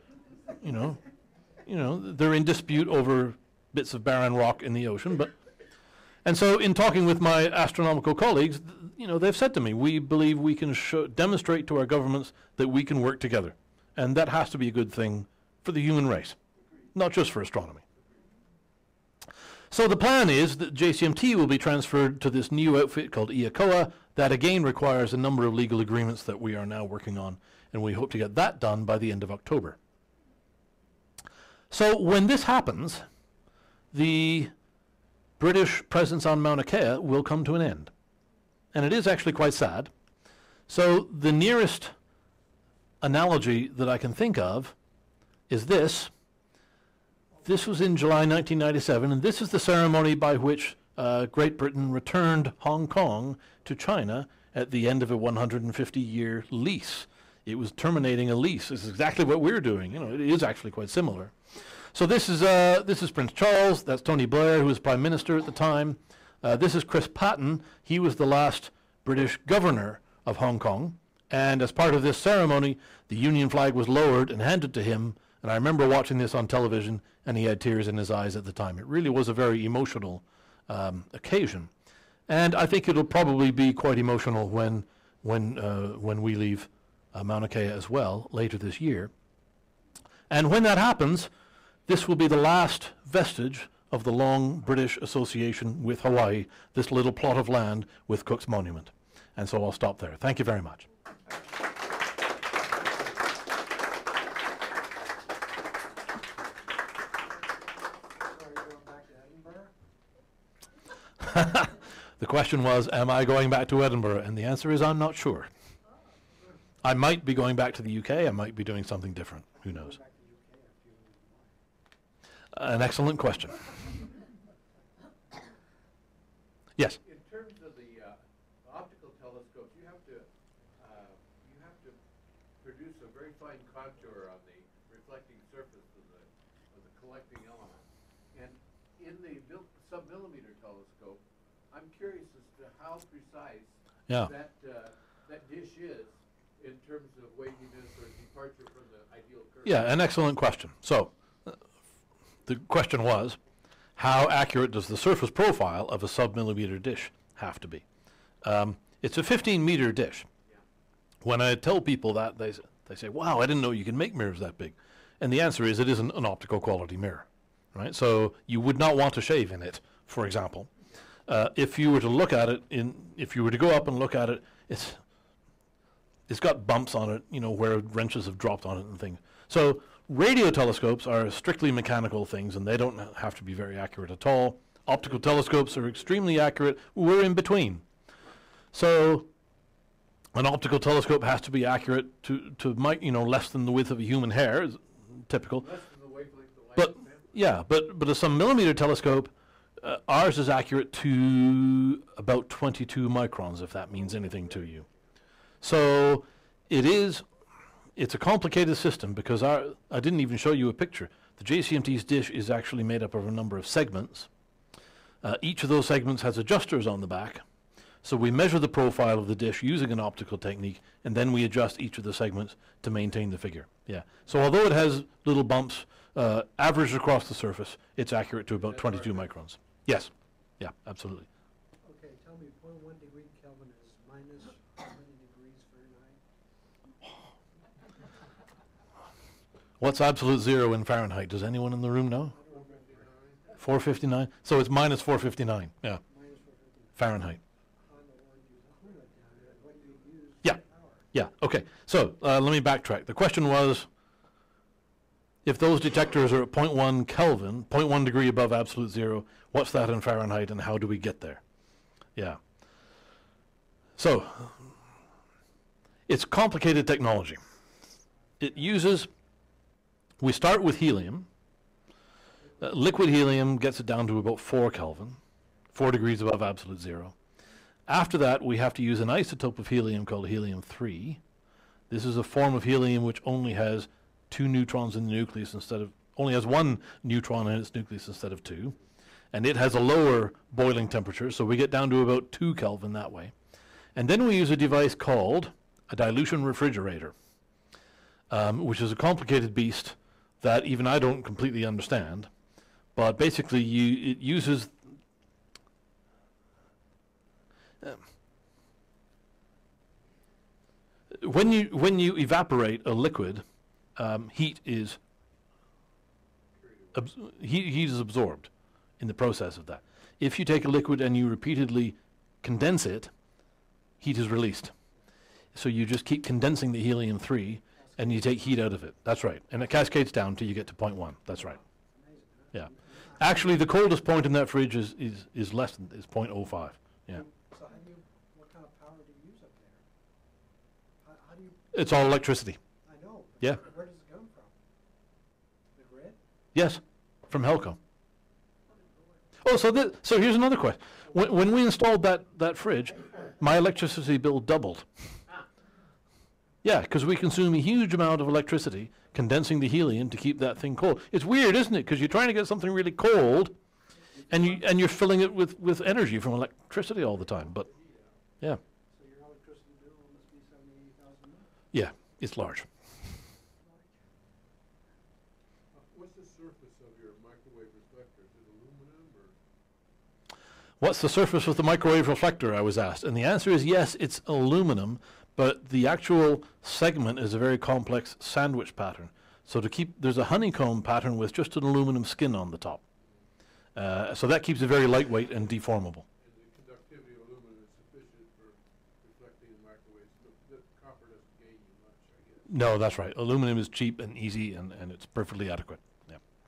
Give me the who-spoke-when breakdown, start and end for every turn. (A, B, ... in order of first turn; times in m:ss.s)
0:00.6-0:01.0 A
0:01.6-0:05.3 A
0:06.2-0:16.4 A
0:16.9-0:17.8 A
0:19.7-0:29.8 A
0:31.7-0:33.0 A
0:33.9-0:34.5 A
0:35.4-0:37.9 A
0:38.7-0:39.9 A
0:40.7-0:41.9 A
0:43.0-0:44.7 A
0:45.5-0:46.1 A
0:47.4-1:01.3 A
1:01.9-1:21.7 A
1:22.3-1:29.1 A
1:30.3-1:31.3 A
1:31.9-1:40.8 A
1:48.1-1:49.7 B
1:51.2-1:55.5 A
1:56.8-2:00.0 A
1:59.5-2:01.6 B
2:02.5-2:03.6 A
2:07.0-2:12.0 C
2:12.6-2:30.0 C
2:29.6-2:31.6 A
2:32.5-2:33.4 A
2:34.0-2:37.8 A
2:38.4-2:40.3 A
2:41.2-2:50.7 A
2:51.3-2:55.0 A
2:56.3-3:07.8 A
3:08.7-3:09.3 A
3:10.3-3:15.7 A
3:15.6-3:17.4 C
3:16.8-3:24.8 A
3:25.6-3:27.2 A
3:28.0-3:34.3 A
3:35.2-3:37.4 A
3:38.0-3:51.3 A
3:48.5-3:49.4 C
3:51.8-3:56.2 B
3:59.8-4:02.3 A
4:02.3-4:03.1 B
4:02.5-4:03.5 C
4:02.7-4:03.1 D
4:03.6-4:06.0 A
4:06.1-4:07.2 B
4:07.0-4:07.4 A
4:07.8-4:11.1 B
4:11.1-4:13.9 A
4:15.4-4:21.4 A
4:24.0-4:24.7 A
4:26.1-4:27.4 A
4:28.4-4:29.1 A
4:30.2-4:31.3 A
4:32.6-4:35.2 A
4:35.7-4:37.1 A
4:37.9-4:41.2 A
4:41.9-4:48.8 A
4:49.3-4:53.3 A
4:53.9-4:57.1 A
4:58.3-5:02.3 A
5:02.9-5:04.8 A
5:11.1-5:13.4 A
5:14.0-5:15.0 A
5:16.6-5:17.0 D
5:16.9-5:23.1 A
5:24.0-5:24.7 A
5:25.5-5:31.6 A
5:27.8-5:28.7 B
5:31.3-5:33.6 B
5:32.5-5:37.2 A
5:37.1-5:39.8 B
5:41.0-5:41.6 B
5:41.7-5:42.6 A
5:42.8-5:44.6 B
5:45.7-5:46.2 B
5:46.5-5:47.8 A
5:48.7-5:49.1 B
5:49.4-5:54.9 A
5:56.6-6:03.5 A
6:04.3-6:07.7 A
6:07.2-6:08.2 D
6:08.9-6:11.5 B
6:11.7-6:12.7 A
6:13.6-6:14.0 B
6:15.7-6:19.4 D
6:20.8-6:32.8 A
6:33.8-6:36.0 A
6:36.2-6:42.5 D
6:42.5-6:46.2 A